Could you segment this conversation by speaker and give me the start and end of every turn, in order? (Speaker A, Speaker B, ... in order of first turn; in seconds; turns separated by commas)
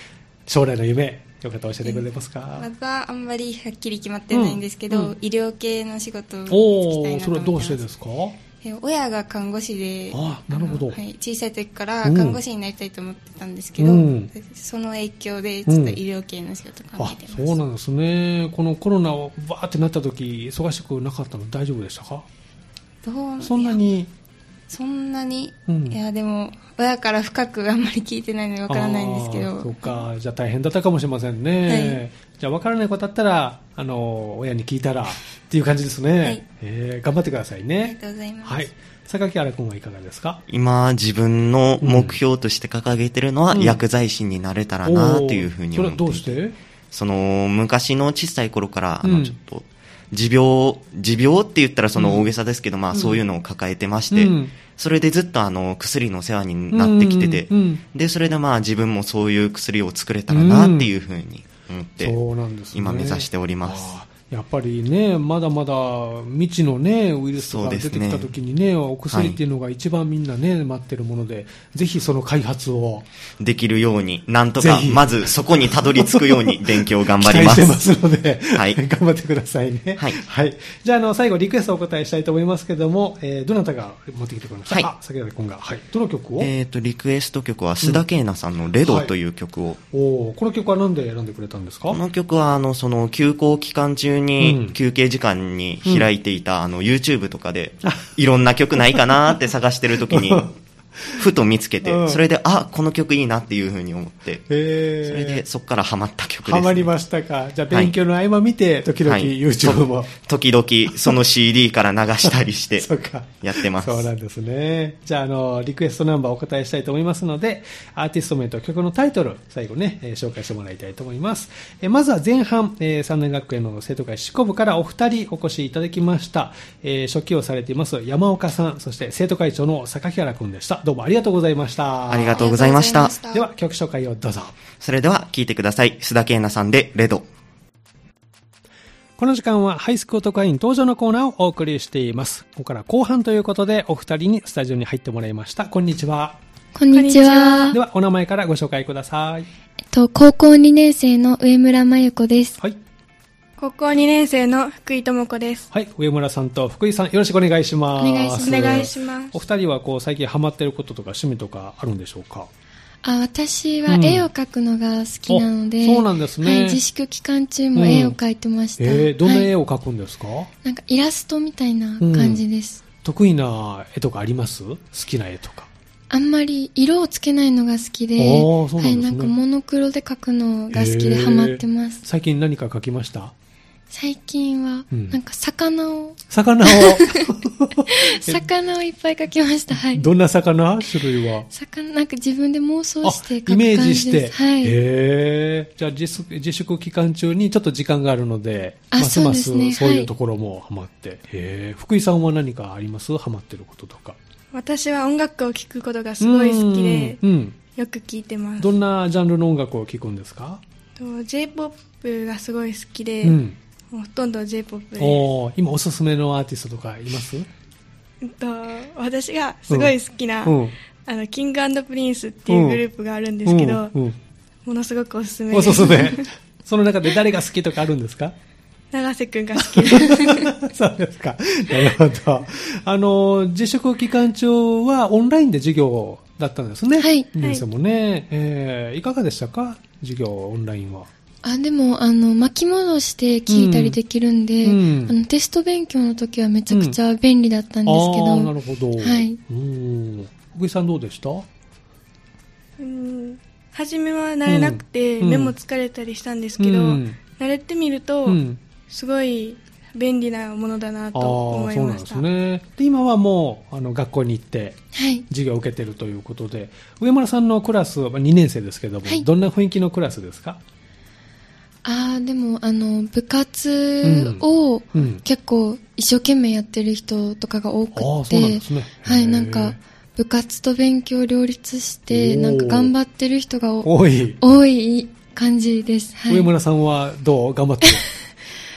Speaker A: 0.5-2.7, Speaker B: 1.8-7.8, Speaker A: 4.3-5.1, Speaker A: 6.5-8.4, Speaker B: 8.6-17.6, Speaker A: 10.1-11.0, Speaker A: 12.0-12.4, Speaker A: 13.8-14.3, Speaker A: 15.7-16.0, Speaker A: 17.0-22.2, Speaker B: 23.0-23.8, Speaker A: 23.4-24.1, Speaker B: 24.7-30.0, Speaker A: 25.7-26.0, Speaker A: 28.7-40.4, Speaker B: 31.7-32.0, Speaker B: 37.8-38.6, Speaker C: 40.5-62.2, Speaker A: 41.8-42.2, Speaker A: 43.5-43.8, Speaker A: 44.8-46.5, Speaker A: 49.0-49.3, Speaker A: 52.0-52.3, Speaker A: 52.9-53.2, Speaker A: 54.1-54.5, Speaker A: 56.7-57.8, Speaker A: 60.3-60.9, Speaker A: 62.0-73.1, Speaker C: 62.7-63.9, Speaker C: 67.4-68.3, Speaker C: 69.1-69.4, Speaker C: 73.4-77.8, Speaker A: 74.6-86.5, Speaker C: 78.5-78.8, Speaker C: 86.4-89.8, Speaker A: 88.8-89.1, Speaker A: 89.9-92.0, Speaker C: 91.9-100.5, Speaker A: 94.4-94.7, Speaker A: 97.8-98.1, Speaker A: 100.1-100.5, Speaker C: 101.1-104.4, Speaker A: 101.8-102.2, Speaker A: 104.5-105.4, Speaker C: 105.0-106.9, Speaker A: 106.4-110.1, Speaker C: 109.0-112.9, Speaker A: 110.9-111.2, Speaker A: 112.2-132.5, Speaker C: 113.4-114.1, Speaker C: 132.1-133.2, Speaker B: 132.3-133.4, Speaker A: 133.3-134.5, Speaker C: 134.8-137.3, Speaker A: 139.2-146.4, Speaker D: 146.7-147.8, Speaker E: 146.9-147.7, Speaker A: 147.7-149.5, Speaker D: 149.9-152.6, Speaker E: 153.6-155.7, Speaker A: 155.7-162.5, Speaker D: 158.0-158.9, Speaker E: 158.4-159.3, Speaker D: 163.0-169.5, Speaker A: 163.9-164.3, Speaker A: 165.3-166.8, Speaker A: 167.7-168.2, Speaker A: 168.8-170.5, Speaker D: 170.6-172.8, Speaker A: 172.0-172.4, Speaker A: 173.0-175.7, Speaker D: 176.1-182.0, Speaker A: 178.2-179.3, Speaker A: 180.7-183.3, Speaker D: 183.9-190.1, Speaker A: 184.9-185.2, Speaker A: 186.3-188.4, Speaker A: 189.7-191.5, Speaker D: 191.5-194.8, Speaker A: 193.0-204.2, Speaker D: 198.9-200.1, Speaker E: 204.5-207.2, Speaker A: 206.2-207.6, Speaker E: 207.8-208.7, Speaker A: 208.6-210.6, Speaker E: 211.0-213.4, Speaker A: 213.2-213.6, Speaker E: 213.9-215.2, Speaker A: 215.0-217.5, Speaker E: 218.2-223.9, Speaker A: 219.7-220.7, Speaker A: 222.5-222.8, Speaker A: 223.4-224.2, Speaker E: 224.7-226.3, Speaker A: 225.5-228.3, Speaker E: 228.9-230.5, Speaker A: 229.6-241.1, Speaker D: 237.0-237.3, Speaker E: 237.4-237.6, Speaker D: 241.4-249.4, Speaker A: 243.5-244.0, Speaker A: 244.6-245.1, Speaker A: 246.7-247.0, Speaker A: 247.8-251.5, Speaker E: 252.8-262.2, Speaker A: 254.4-255.5, Speaker A: 256.6-257.2, Speaker A: 258.2-258.6, Speaker A: 261.1-270.6, Speaker D: 264.9-265.3, Speaker D: 271.8-286.5, Speaker A: 274.0-275.2, Speaker A: 277.9-279.8, Speaker A: 282.1-282.9, Speaker A: 283.8-284.4, Speaker A: 286.3-288.0